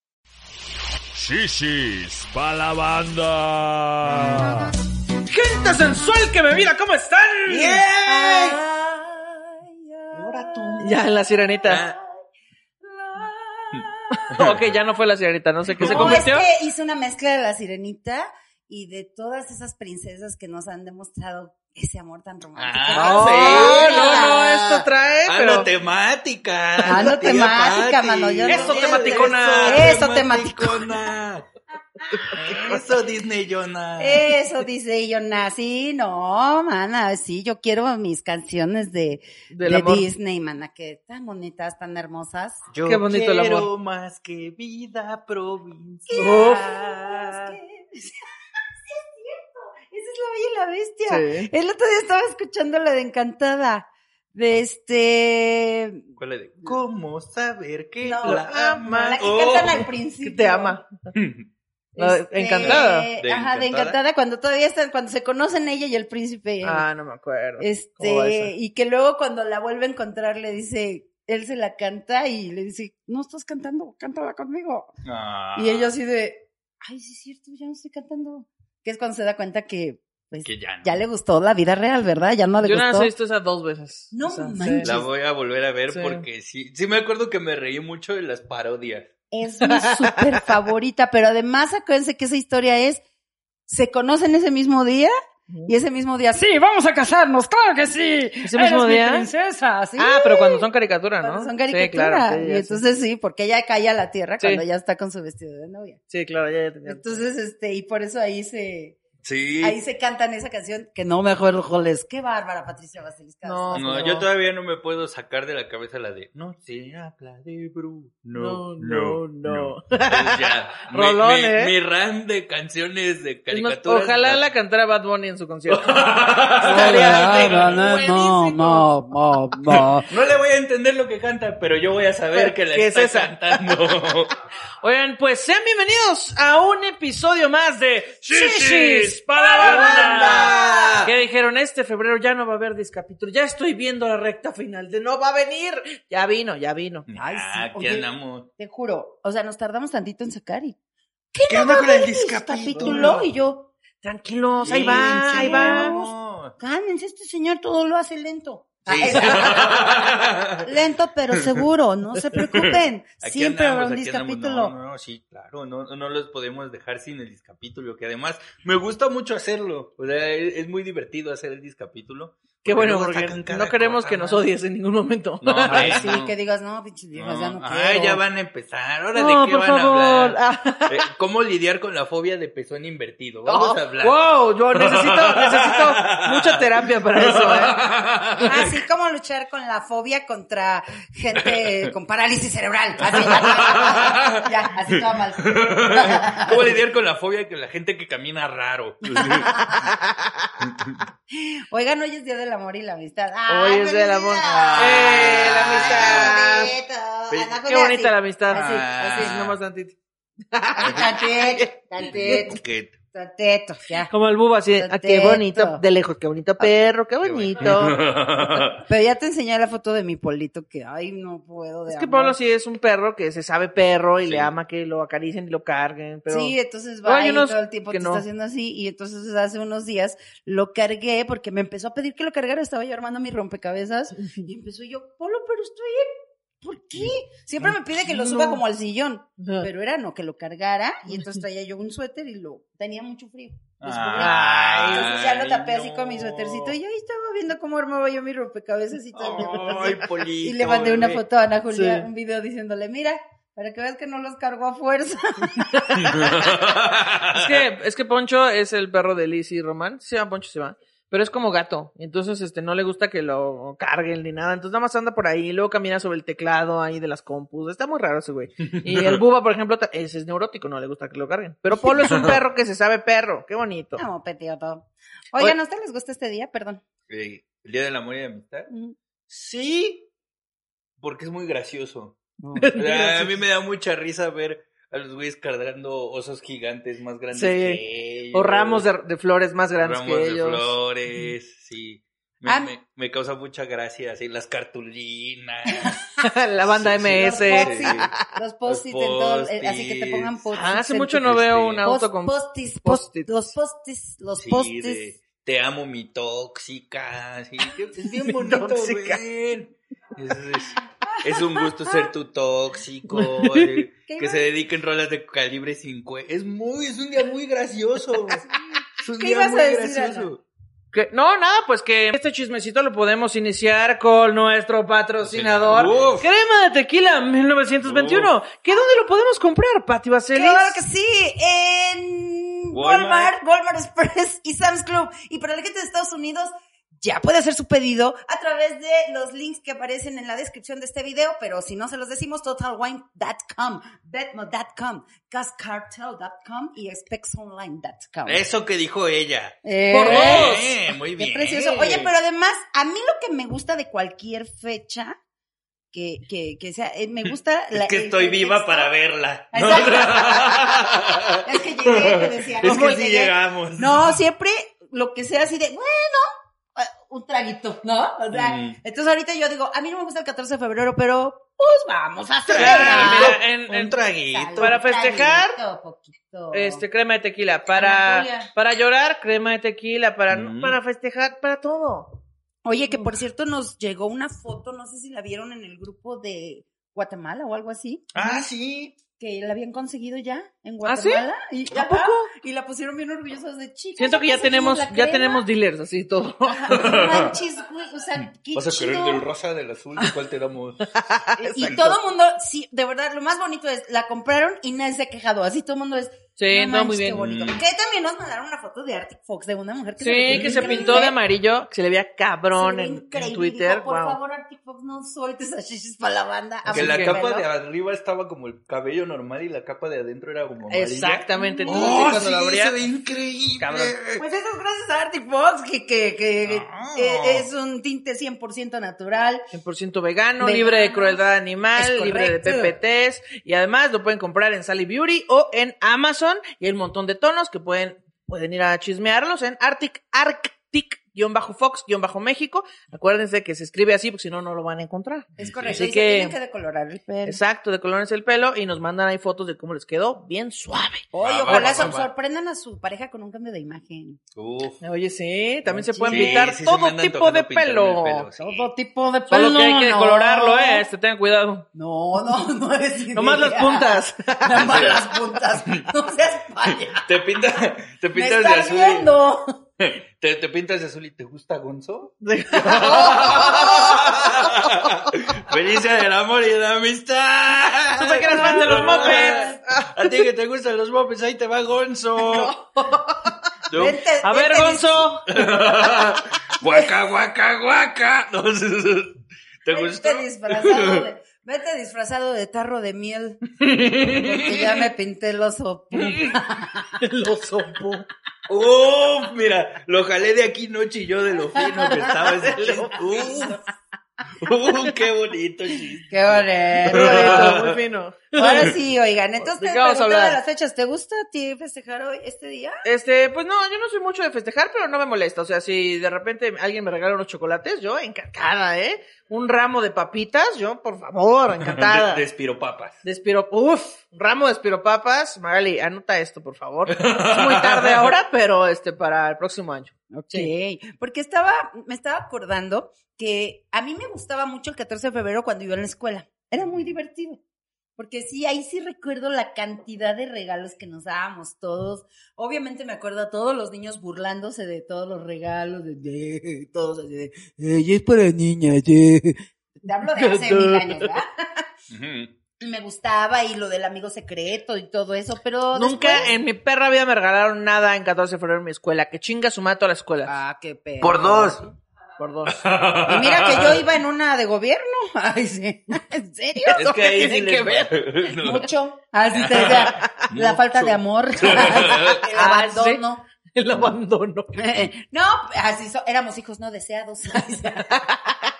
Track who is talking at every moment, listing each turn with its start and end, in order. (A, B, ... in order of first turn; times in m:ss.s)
0:01.2-0:04.7 A
0:05.2-0:07.9 B
0:07.5-0:08.6 C
0:08.0-0:11.0 D
0:10.1-0:10.9 C
0:10.8-0:11.8 B
0:11.7-0:12.0 C
0:12.8-0:14.4 D
0:13.7-0:14.7 C
0:14.2-0:16.5 B
0:15.8-0:16.2 C
0:15.8-0:24.8 D
0:22.6-0:24.4 C
0:22.9-0:25.7 B
0:25.2-0:31.5 C
0:26.8-0:31.0 D
0:28.5-0:30.0 B
0:32.1-0:32.8 D
0:32.3-0:34.4 C
0:34.0-0:42.7 D
0:39.5-0:40.1 B
0:42.7-0:47.5 C
0:42.8-0:43.7 B
0:46.1-0:48.2 D
0:46.2-0:46.9 B
0:48.8-0:56.1 D
0:51.1-0:51.5 B
0:56.2-0:59.9 C
0:58.0-0:58.4 D
0:58.2-0:59.2 B
0:59.1-1:00.8 D
1:00.2-1:01.1 B
1:01.1-1:01.5 C
1:02.0-1:06.9 D
1:02.0-1:03.1 B
1:02.6-1:04.0 C
1:06.6-1:08.5 B
1:07.6-1:14.9 D
1:15.0-1:15.9 C
1:15.6-1:23.1 D
1:20.4-1:20.9 C
1:22.6-1:24.9 B
1:24.1-1:25.0 D
1:24.8-1:29.1 C
1:25.9-1:26.2 B
1:29.3-1:33.0 D
1:29.6-1:30.2 B
1:33.7-1:35.2 D
1:35.7-1:40.7 D
1:38.4-1:39.3 B
1:40.0-1:42.8 B
1:41.2-1:46.0 D
1:46.1-1:47.2 B
1:46.8-1:49.0 D
1:49.2-1:49.8 C
1:49.6-1:54.2 D
1:53.4-1:54.3 B
1:53.7-2:04.4 C
1:58.4-2:01.7 B
2:03.5-2:06.0 B
2:05.7-2:08.8 C
2:06.6-2:08.8 B
2:06.6-2:10.1 D
2:09.6-2:14.4 C
2:12.3-2:13.8 B
2:14.8-2:27.1 B
2:18.3-2:21.1 C
2:19.4-2:21.1 D
2:27.1-2:28.5 C
2:27.2-2:30.8 D
2:31.3-2:33.7 D
2:31.5-2:33.3 C
2:32.8-2:33.2 B
2:34.0-2:36.0 B
2:34.5-2:44.8 D
2:34.6-2:36.5 C
2:38.8-2:40.7 C
2:43.2-2:54.4 C
2:52.6-2:56.2 B
2:55.4-2:56.3 C
2:55.7-2:58.2 D
2:57.2-3:04.2 C
2:59.2-3:01.0 B
3:03.5-3:07.8 B
3:04.8-3:08.8 C
3:08.4-3:16.7 D
3:11.4-3:11.9 C
3:13.0-3:19.9 C
3:19.1-3:19.9 D
3:20.6-3:21.0 C
3:21.3-3:29.4 D
3:23.5-3:26.7 B
3:24.4-3:26.4 C
3:27.3-3:27.6 C
3:27.7-3:30.0 B
3:28.5-3:29.6 C
3:30.5-3:32.5 B
3:30.8-3:32.6 D
3:32.1-3:33.0 C
3:33.1-3:34.1 D
3:34.1-3:38.6 B
3:34.8-3:35.8 D
3:37.2-3:38.8 C
3:38.8-3:42.4 D
3:41.9-3:48.2 B
3:44.2-3:44.5 C
3:46.3-3:56.1 D
3:56.6-4:16.2 D
3:57.0-3:57.8 C
3:58.1-3:58.6 B
3:59.4-3:59.7 B
4:03.8-4:06.8 C
4:04.2-4:05.1 B
4:09.1-4:11.2 C
4:11.7-4:12.1 B
4:16.0-4:17.6 C
4:17.3-4:34.0 B
4:28.7-4:29.2 C
4:32.0-4:32.4 C
4:34.0-4:36.8 D
4:37.1-4:38.7 C
4:38.7-4:39.0 D
4:39.3-4:40.1 C
4:41.0-4:42.2 C
4:42.4-4:42.8 D
4:42.6-4:43.3 B
4:42.7-4:48.9 C
4:47.3-4:47.8 B
4:48.3-4:50.7 B
4:49.8-4:56.0 C
4:52.4-4:52.7 D
4:56.2-4:58.1 B
4:56.7-4:58.1 C
4:57.2-5:05.1 D
4:58.7-5:00.3 C
5:00.5-5:03.5 B
5:01.2-5:01.8 C
5:04.4-5:18.5 C
5:08.0-5:09.2 B
5:11.0-5:12.0 D
5:13.1-5:13.8 B
5:14.1-5:14.4 D
5:19.0-5:20.4 C
5:19.2-5:20.3 D
5:20.9-5:30.8 B
5:25.2-5:26.3 C
5:27.8-5:28.3 C
5:30.4-5:48.4 D
5:32.7-5:33.3 C
5:48.2-5:52.1 C
5:49.6-5:50.7 D
5:49.9-5:50.7 B
5:51.2-5:55.2 D
5:55.9-5:58.9 D
5:57.3-6:04.2 C
5:59.5-6:13.4 D
6:08.3-6:08.8 C
6:12.5-6:14.8 C
6:12.5-6:14.0 B
6:14.3-6:16.8 D
6:14.6-6:15.6 B
6:16.5-6:22.2 B
6:17.7-6:18.5 D
6:20.3-6:20.8 C
6:22.6-6:28.5 D
6:28.1-6:29.0 C
6:29.2-6:35.4 D
6:30.8-6:32.3 B
6:34.0-6:37.0 B
6:36.5-6:39.2 D
6:36.7-6:37.3 C
6:38.2-6:41.0 C
6:41.0-6:41.9 B
6:41.4-6:51.2 D
6:41.6-6:41.9 C
6:46.4-6:47.2 B
6:47.1-6:47.6 C
6:50.0-6:54.2 B
6:50.3-6:51.0 C
6:52.5-6:57.5 D
6:56.7-6:57.2 B
6:56.7-7:04.2 C
7:00.7-7:02.8 B
7:01.3-7:02.2 D
7:03.6-7:04.0 B
7:04.2-7:09.5 D
7:06.5-7:07.5 C
7:09.5-7:26.4 B
7:10.4-7:11.2 D
7:11.8-7:12.8 D
7:25.4-7:27.4 D
7:25.4-7:25.8 C
7:27.3-7:31.9 B
7:31.1-7:34.2 D
7:31.2-7:32.1 C
7:34.4-7:34.8 C
7:34.8-7:38.3 B
7:35.7-7:36.5 D
7:36.1-7:38.7 C
7:38.4-7:40.8 D
7:39.3-7:41.7 B
7:41.7-7:47.0 D
7:43.1-7:44.8 B
7:44.6-7:45.0 C
7:46.7-7:49.1 C
7:48.1-7:49.6 D
7:49.8-8:02.5 C
7:52.2-7:54.0 B
7:52.7-7:54.6 D
7:58.0-8:00.2 B
7:58.2-7:59.6 D
8:02.2-8:03.2 D
8:03.7-8:04.0 C
8:03.7-8:05.2 D
8:04.2-8:05.2 B
8:05.3-8:11.1 C
8:09.7-8:16.9 D
8:13.8-8:14.8 C
8:16.0-8:16.4 C
8:17.0-8:18.1 B
8:18.5-8:23.6 C
8:21.8-8:23.6 D
8:22.4-8:23.4 B
8:24.4-8:27.8 C
8:26.1-8:27.5 D
8:26.8-8:28.8 B
8:28.3-8:32.8 D
8:29.4-8:30.4 B
8:32.8-8:42.2 B
8:41.6-8:43.0 C
8:43.0-8:50.5 B
8:46.9-8:48.2 C
8:50.1-8:57.4 D
8:58.0-9:11.7 D
9:10.1-9:11.2 B
9:11.9-9:12.3 C
9:12.6-9:16.3 D
9:15.8-9:20.3 B
9:20.2-9:21.8 D
9:21.0-9:21.6 C
9:22.2-9:22.6 B
9:22.5-9:23.9 C
9:23.0-9:26.8 D
9:26.6-9:28.0 B
9:26.8-9:28.7 C
9:28.4-9:33.2 D
9:29.3-9:32.2 C
9:29.7-9:30.1 B
9:31.6-9:33.0 B
9:33.5-9:34.6 B
9:34.6-9:38.1 D